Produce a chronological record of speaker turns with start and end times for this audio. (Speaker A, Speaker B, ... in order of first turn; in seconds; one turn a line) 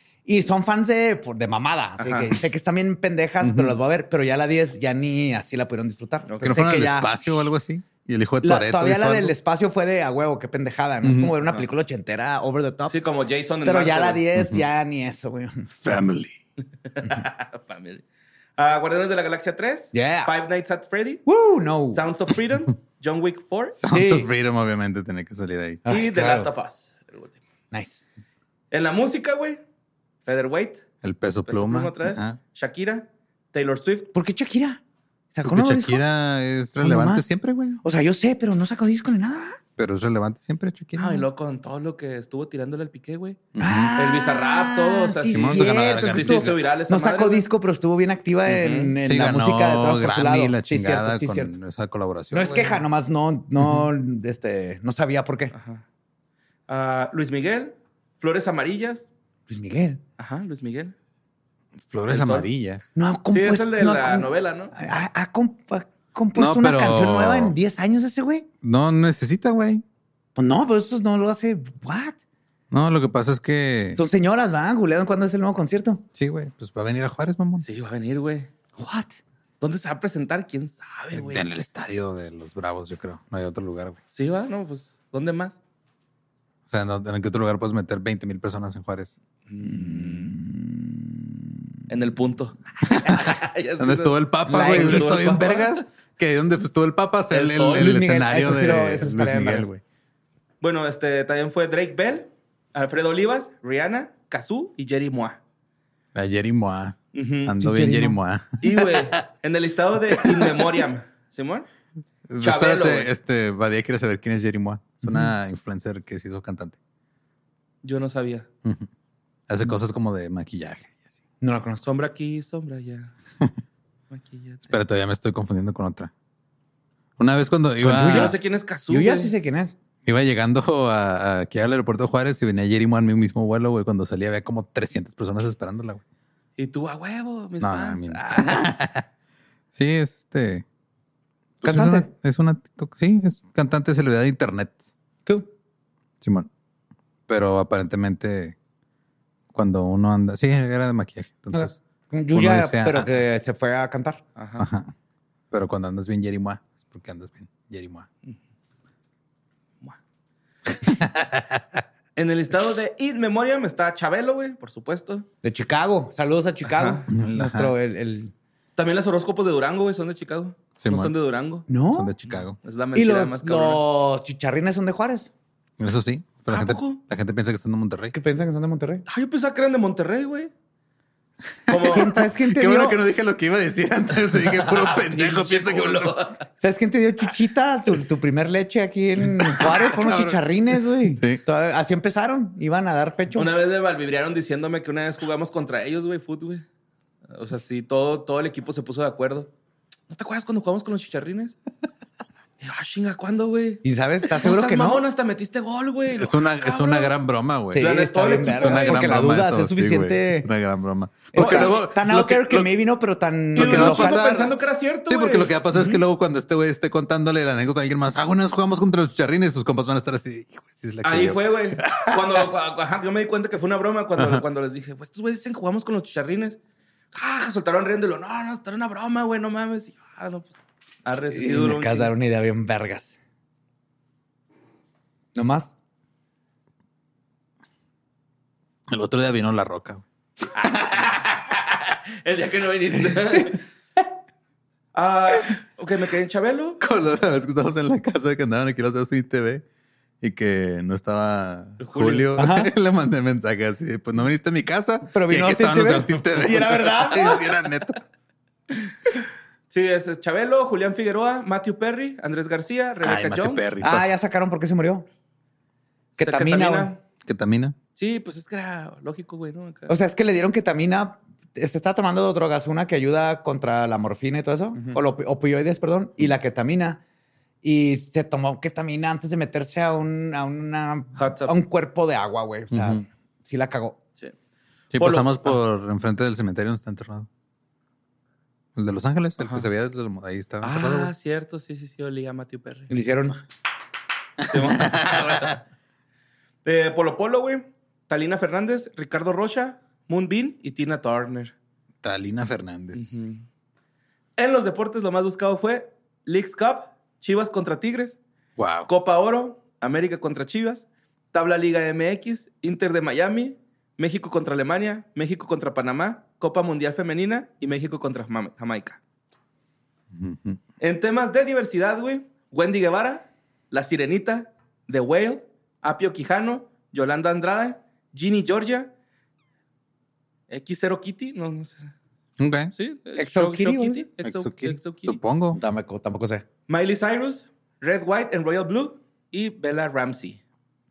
Speaker A: 0.2-7.1
Speaker B: 2.0-2.4
Speaker C: 3.4-3.8
Speaker B: 6.3-6.6
Speaker C: 6.4-9.3
Speaker A: 8.4-13.0
Speaker C: 11.0-11.3
Speaker B: 12.9-14.2
Speaker A: 13.6-15.7
Speaker C: 14.3-14.6
Speaker C: 15.7-16.4
Speaker B: 16.9-18.0
Speaker B: 18.6-21.2
Speaker A: 19.9-20.3
Speaker A: 21.2-22.0
Speaker B: 21.9-23.8
Speaker C: 23.8-25.8
Speaker A: 23.9-24.3
Speaker A: 25.8-26.5
Speaker B: 25.9-27.4
Speaker A: 27.7-28.1
Speaker B: 28.7-29.6
Speaker B: 30.2-30.8
Speaker C: 31.0-32.4
Speaker B: 31.5-34.1
Speaker A: 34.1-34.8
Speaker A: 35.3-36.0
Speaker C: 35.4-37.8
Speaker A: 36.8-37.2
Speaker A: 37.8-39.6
Speaker C: 39.8-41.2
Speaker B: 41.0-43.4
Speaker C: 43.5-44.0
Speaker A: 43.6-51.5
Speaker B: 44.0-47.5
Speaker C: 45.3-46.6
Speaker B: 48.5-48.9
Speaker C: 49.0-52.8
Speaker A: 52.3-55.5
Speaker C: 53.6-53.9
Speaker B: 55.5-55.8
Speaker B: 56.7-59.1
Speaker A: 59.5-60.0
Speaker B: 60.2-60.9
Speaker C: 61.8-62.9
Speaker B: 62.1-62.5
Speaker A: 63.0-68.5
Speaker B: 63.3-64.7
Speaker C: 66.3-67.5
Speaker C: 68.6-69.8
Speaker A: 70.3-72.2
Speaker C: 72.7-74.0
Speaker A: 74.0-76.0
Speaker C: 76.2-77.7
Speaker B: 77.6-78.5
Speaker A: 78.8-79.2
Speaker B: 79.6-81.4
Speaker C: 81.1-84.0
Speaker B: 84.1-85.6
Speaker C: 86.7-89.1
Speaker B: 89.5-90.3
Speaker A: 89.6-91.1
Speaker B: 91.9-95.8
Speaker C: 93.0-99.8
Speaker A: 94.5-95.2
Speaker B: 97.3-98.0
Speaker A: 97.7-99.7
Speaker B: 100.6-105.4
Speaker C: 106.1-109.2
Speaker B: 107.1-107.5
Speaker A: 107.6-108.2
Speaker B: 108.6-111.7
Speaker C: 110.2-110.7
Speaker C: 112.3-116.8
Speaker B: 112.4-113.1
Speaker A: 115.0-115.3
Speaker B: 117.8-118.5
Speaker C: 119.5-121.0
Speaker A: 121.4-121.8
Speaker B: 121.8-123.1
Speaker B: 124.1-124.8
Speaker C: 124.7-126.1
Speaker C: 127.2-128.4
Speaker A: 127.8-128.3
Speaker B: 128.0-129.3
Speaker A: 128.9-129.7
Speaker C: 130.0-136.0
Speaker B: 136.6-138.6
Speaker C: 137.6-139.0
Speaker C: 139.7-140.6
Speaker C: 141.6-144.9
Speaker A: 141.6-142.1
Speaker C: 146.2-146.5
Speaker C: 147.3-148.6
Speaker C: 149.5-151.8
Speaker A: 151.5-154.2
Speaker C: 152.3-153.1
Speaker B: 154.3-154.7
Speaker C: 154.6-154.9
Speaker C: 155.5-158.1
Speaker C: 161.0-161.6
Speaker B: 162.2-165.2
Speaker A: 165.4-168.3
Speaker B: 166.6-167.0
Speaker C: 167.1-167.7
Speaker B: 168.8-171.7
Speaker C: 170.8-171.1
Speaker A: 171.7-172.1
Speaker C: 171.9-172.6
Speaker B: 172.3-173.8
Speaker A: 172.9-175.3
Speaker C: 175.8-178.1
Speaker B: 176.5-177.0
Speaker A: 178.1-179.0
Speaker B: 179.1-180.5
Speaker B: 181.7-182.1
Speaker C: 181.7-186.2
Speaker A: 181.9-183.0
Speaker B: 184.4-186.4
Speaker A: 186.6-193.5
Speaker C: 189.4-190.4
Speaker C: 191.1-191.4
Speaker B: 193.3-196.6
Speaker B: 197.3-199.5
Speaker B: 200.1-201.6
Speaker B: 202.6-207.1
Speaker A: 203.8-205.0
Speaker C: 206.1-212.7
Speaker A: 207.7-210.5
Speaker B: 207.7-209.2
Speaker A: 211.3-214.3
Speaker B: 211.3-211.8
Speaker C: 213.5-214.5
Speaker B: 213.5-216.0
Speaker C: 215.1-222.5
Speaker B: 221.0-226.6
Speaker C: 224.2-224.4
Speaker B: 227.1-232.1
Speaker A: 231.3-233.2
Speaker A: 235.3-235.7
Speaker C: 238.9-240.0
Speaker B: 240.6-243.6
Speaker B: 244.9-246.8
Speaker C: 246.8-249.6
Speaker C: 250.2-258.0
Speaker B: 251.8-252.3
Speaker A: 252.4-252.7
Speaker A: 255.1-257.4
Speaker B: 259.7-263.6
Speaker C: 263.0-264.1
Speaker A: 263.8-265.1
Speaker B: 266.2-267.0
Speaker A: 266.2-266.9
Speaker C: 267.2-267.8
Speaker B: 267.9-269.9
Speaker A: 269.9-277.0
Speaker A: 277.6-284.0
Speaker B: 281.1-281.5
Speaker C: 282.7-283.0
Speaker C: 284.9-287.3
Speaker B: 284.9-285.5
Speaker C: 288.8-291.1
Speaker B: 289.4-289.7
Speaker B: 290.6-292.9
Speaker A: 292.9-293.4
Speaker B: 294.4-295.6
Speaker C: 294.5-295.6
Speaker B: 296.6-301.5
Speaker C: 302.0-303.3
Speaker B: 302.9-303.4
Speaker B: 304.4-308.2
Speaker C: 308.6-308.9
Speaker B: 308.9-319.0
Speaker C: 320.1-320.6
Speaker B: 320.8-328.9
Speaker B: 330.5-331.9
Speaker C: 332.4-332.7
Speaker B: 332.7-335.2
Speaker A: 333.2-334.0
Speaker C: 334.2-335.6
Speaker A: 335.5-336.4
Speaker B: 336.7-340.4